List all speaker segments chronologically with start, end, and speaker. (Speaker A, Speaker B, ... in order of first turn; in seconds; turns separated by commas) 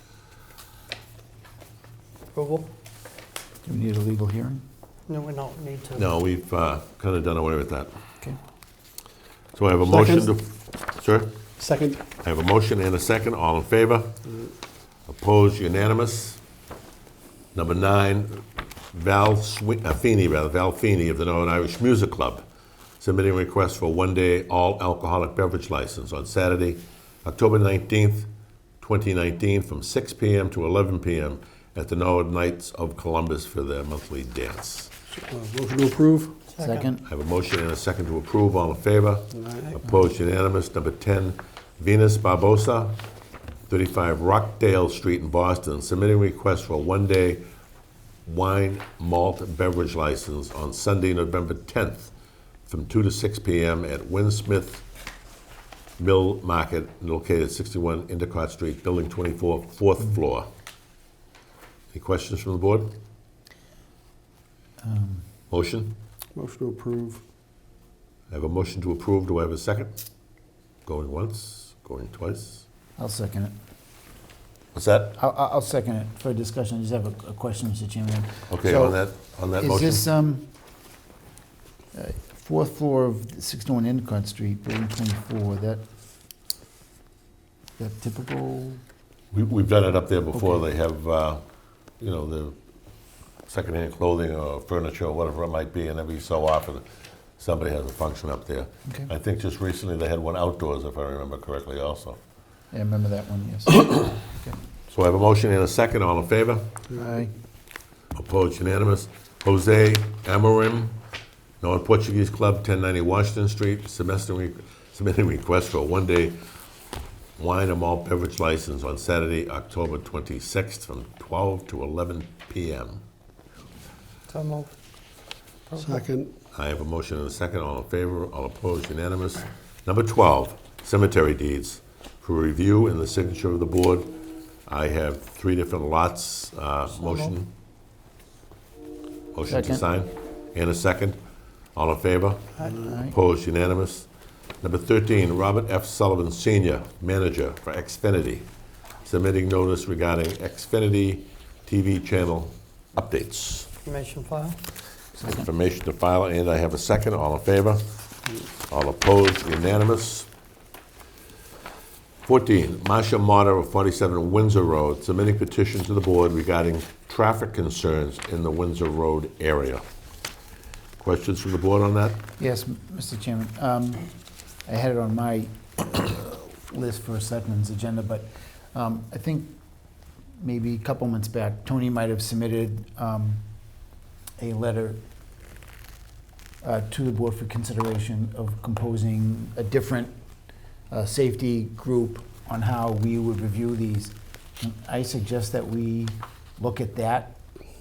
Speaker A: 2.3-2.7, Speaker B: 3.7-4.6, Speaker A: 5.1-6.1, Speaker C: 6.0-7.9, Speaker C: 9.6-11.3, Speaker D: 9.8-10.3, Speaker D: 11.6-12.0, Speaker C: 12.2-14.2, Speaker C: 15.1-16.4, Speaker C: 17.5-22.4, Speaker C: 23.0-28.3, Speaker C: 28.8-34.9, Speaker D: 35.1-36.5, Speaker A: 36.5-36.9, Speaker B: 36.6-37.0, Speaker C: 37.0-43.0, Speaker D: 39.4-39.7, Speaker C: 43.7-47.4, Speaker C: 48.3-52.1, Speaker C: 52.7-54.8, Speaker C: 56.0-60.5, Speaker C: 61.9-62.9, Speaker B: 64.8-65.2, Speaker C: 65.5-66.0, Speaker D: 66.3-67.2, Speaker C: 68.3-70.0, Speaker C: 70.9-72.7, Speaker B: 73.0-73.5, Speaker C: 74.7-75.2, Speaker B: 75.2-79.0, Speaker C: 78.5-80.1, Speaker B: 79.6-80.5, Speaker B: 81.9-85.8, Speaker B: 87.8-88.8, Speaker C: 89.3-91.4, Speaker B: 90.3-90.6, Speaker C: 92.0-92.6, Speaker C: 93.5-96.8, Speaker C: 97.4-102.2, Speaker B: 102.7-104.6, Speaker C: 104.9-106.7, Speaker B: 106.9-107.3, Speaker C: 108.1-111.0, Speaker C: 111.6-116.4, Speaker C: 117.4-123.0, Speaker A: 124.3-124.7, Speaker A: 125.7-126.1, Speaker D: 125.8-126.3, Speaker C: 126.5-134.1, Speaker C: 134.7-137.5, Speaker C: 139.3-141.2, Speaker B: 139.5-139.8, Speaker C: 141.8-144.1, Speaker B: 142.8-143.1, Speaker C: 144.6-148.5, Speaker C: 149.1-153.7, Speaker A: 153.8-154.6, Speaker B: 155.2-155.4, Speaker C: 155.2-157.9, Speaker C: 158.7-160.3, Speaker C: 162.2-169.8, Speaker C: 171.0-172.2, Speaker B: 172.4-174.1, Speaker B: 174.7-179.5, Speaker B: 180.4-183.4, Speaker B: 184.4-185.0, Speaker B: 186.6-190.1, Speaker B: 190.9-197.4